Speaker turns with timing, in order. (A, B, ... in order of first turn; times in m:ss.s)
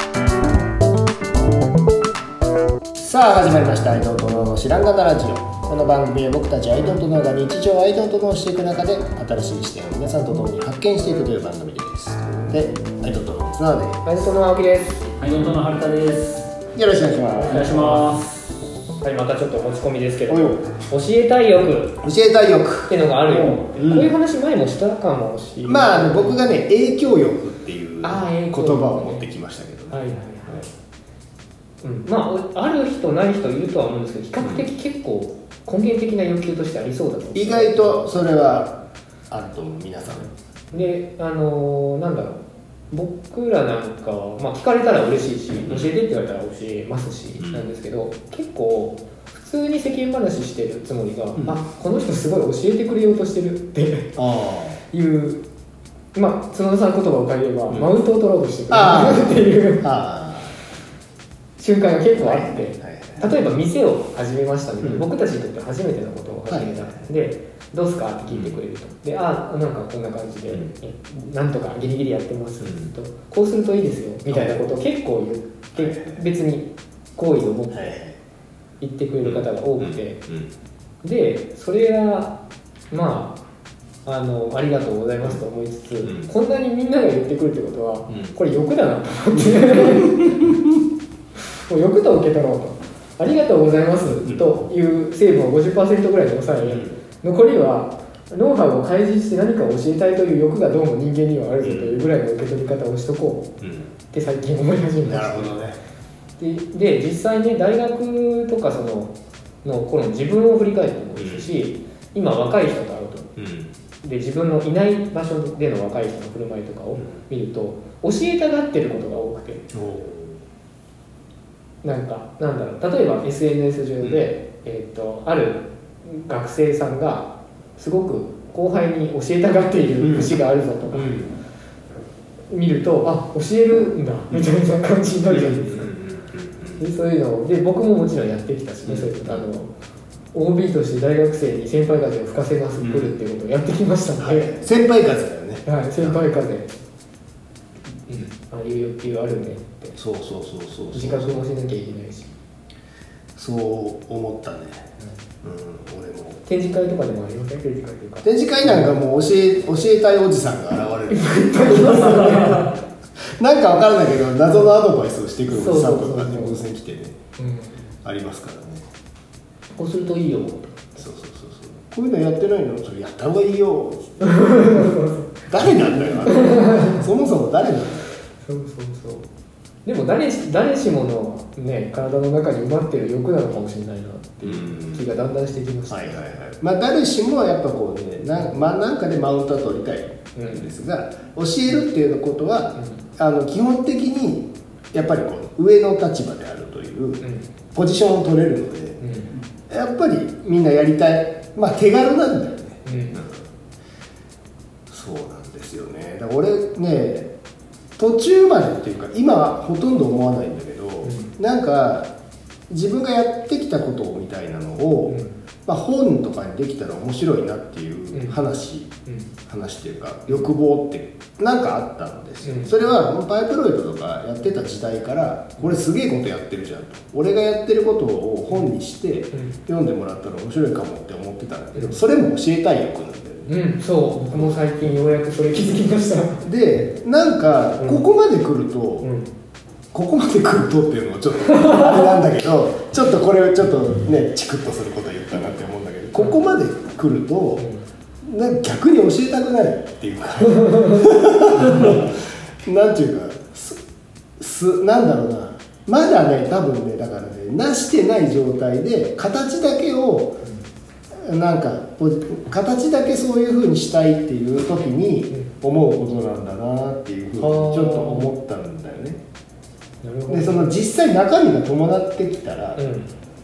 0:03.0-0:14.1 A
0:14.0-0:15.1 B
0:15.2-0:16.5 C
0:16.8-0:18.0 A
0:17.4-0:18.1 B
0:17.4-0:18.3 C
0:19.0-0:21.9 B
0:20.3-0:20.6 A
0:22.0-0:24.1 A
0:22.9-0:26.5 B
0:25.6-0:30.7 A
0:28.0-0:29.3 B
0:29.9-0:30.7 B
0:31.8-0:38.2 B
0:34.4-0:34.7 A
0:37.3-0:38.8 A
0:39.3-0:40.3 A
0:40.2-0:54.1 B
0:45.6-0:45.9 A
0:47.4-0:47.7 A
0:54.2-0:54.8 A
0:54.9-0:55.4 B
0:56.1-0:59.8 B
0:57.7-0:58.0 A
0:58.7-1:00.5 A
1:01.6-1:17.9 B
1:02.1-1:03.4 A
1:04.8-1:05.1 A
1:06.5-1:07.1 A
1:08.3-1:08.6 A
1:10.5-1:10.7 A
1:12.6-1:12.9 A
1:14.3-1:14.6 A
1:15.8-1:16.2 A
1:17.7-1:18.2 A
1:18.8-1:20.2 B
1:19.2-1:20.5 A
1:21.0-1:22.4 B
1:22.9-1:23.4 B
1:24.0-1:30.3 B
1:26.0-1:26.3 A
1:28.1-1:28.3 A
1:29.4-1:30.4 A
1:31.7-1:43.5 B
1:34.2-1:34.6 A
1:36.7-1:37.0 A
1:41.6-1:42.1 A
1:43.6-1:43.9 A
1:44.1-1:45.6 B
1:45.0-1:45.8 A
1:46.4-1:53.3 B
1:51.2-1:51.5 A
1:53.4-1:53.7 A
1:54.0-1:59.6 B
1:59.7-2:00.4 A
2:01.8-2:11.2 B
2:04.0-2:04.3 A
2:10.0-2:10.4 A
2:10.9-2:11.3 A
2:12.5-2:15.9 B
2:15.3-2:16.8 A
2:16.8-2:19.7 B
2:18.9-2:19.5 A
2:20.3-2:24.6 B
2:22.8-2:23.2 A
2:24.2-2:26.3 A
2:25.7-2:26.7 B
2:28.1-2:30.0 B
2:30.0-2:31.4 A
2:30.9-2:32.3 B
2:33.4-2:34.9 A
2:35.4-2:36.4 A
2:36.5-2:39.0 B
2:38.2-2:42.7 A
2:41.1-2:42.7 B
2:42.3-2:42.6 C
2:43.4-2:47.2 A
2:45.5-2:46.6 B
2:47.4-2:47.8 B
2:48.0-2:48.8 A
2:49.8-2:51.0 B
2:51.0-2:54.9 A
2:54.2-2:55.4 B
2:55.5-2:58.1 A
2:55.9-2:57.0 B
2:58.4-2:59.3 B
2:59.8-3:06.2 B
3:04.4-3:05.1 A
3:05.9-3:17.2 A
3:10.4-3:10.7 B
3:12.8-3:13.0 B
3:17.2-3:17.5 B
3:17.8-3:19.0 A
3:19.0-3:19.3 B
3:19.7-3:23.4 A
3:22.8-3:23.2 B
3:24.9-3:27.3 A
3:28.0-3:32.1 A
3:31.0-3:31.3 B
3:32.7-3:38.9 A
3:35.1-3:35.4 B
3:38.1-3:38.4 B
3:39.5-3:53.6 A
3:42.4-3:42.8 B
3:51.7-3:52.0 B
3:53.5-3:56.4 B
3:54.3-3:54.6 A
3:56.4-3:59.1 A
3:57.8-3:58.0 B
3:59.0-3:59.3 B
3:59.9-4:07.7 A
4:01.5-4:02.1 B
4:08.2-4:13.8 A
4:11.6-4:12.1 C
4:14.4-4:20.4 A
4:21.2-4:29.2 A
4:27.4-4:28.3 B
4:30.0-4:30.8 B
4:30.3-4:32.9 A
4:32.8-4:33.1 B